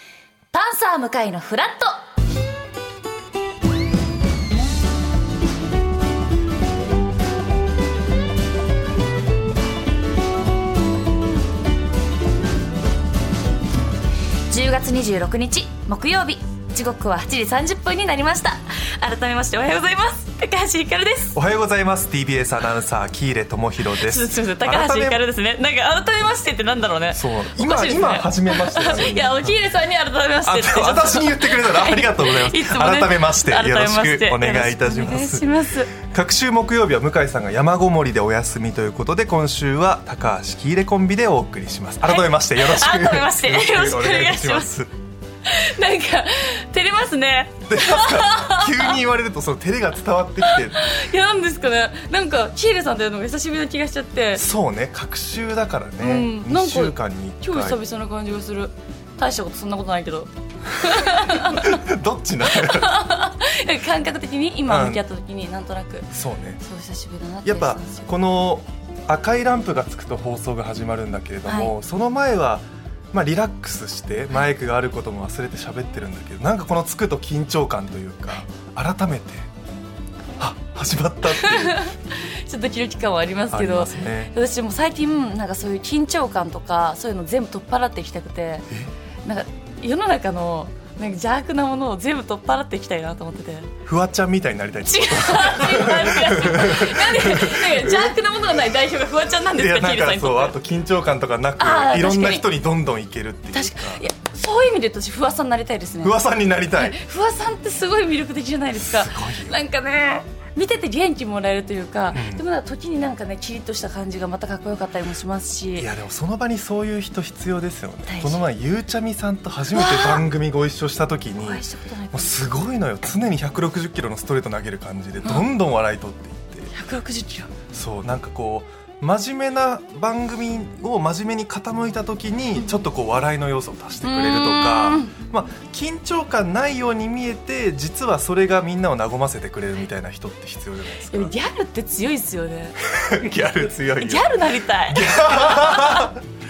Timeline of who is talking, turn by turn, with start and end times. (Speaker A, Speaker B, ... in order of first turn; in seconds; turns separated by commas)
Speaker A: 0.5-1.9, Speaker A: 14.5-21.4, Speaker B: 21.3-25.2, Speaker A: 24.0-35.9, Speaker B: 27.1-29.6, Speaker B: 30.4-44.9, Speaker A: 42.0-44.7, Speaker A: 45.5-49.0, Speaker B: 47.7-50.9, Speaker A: 50.4-54.4, Speaker B: 54.3-57.8, Speaker A: 56.0-61.8, Speaker B: 60.8-63.0, Speaker A: 62.4-66.1, Speaker B: 64.7-65.0, Speaker B: 66.1-66.6, Speaker A: 66.6-68.0, Speaker B: 67.4-79.5, Speaker A: 71.5-71.7, Speaker B: 80.4-81.9, Speaker A: 81.3-88.7, Speaker B: 83.5-84.3, Speaker A: 89.2-93.7, Speaker B: 93.8-98.2, Speaker A: 94.8-100.6, Speaker B: 99.5-104.0, Speaker A: 101.6-102.5, Speaker A: 103.5-106.2, Speaker B: 106.0-107.0, Speaker A: 106.7-115.9, Speaker B: 108.7-109.6, Speaker B: 112.1-112.4, Speaker B: 115.8-126.7, Speaker A: 118.1-118.4, Speaker A: 119.7-120.2, Speaker A: 121.4-122.5, Speaker A: 125.2-125.5, Speaker A: 126.7-127.5, Speaker B: 127.7-141.3, Speaker A: 134.0-135.1, Speaker A: 141.1-142.8, Speaker B: 142.8-146.2, Speaker A: 144.0-146.1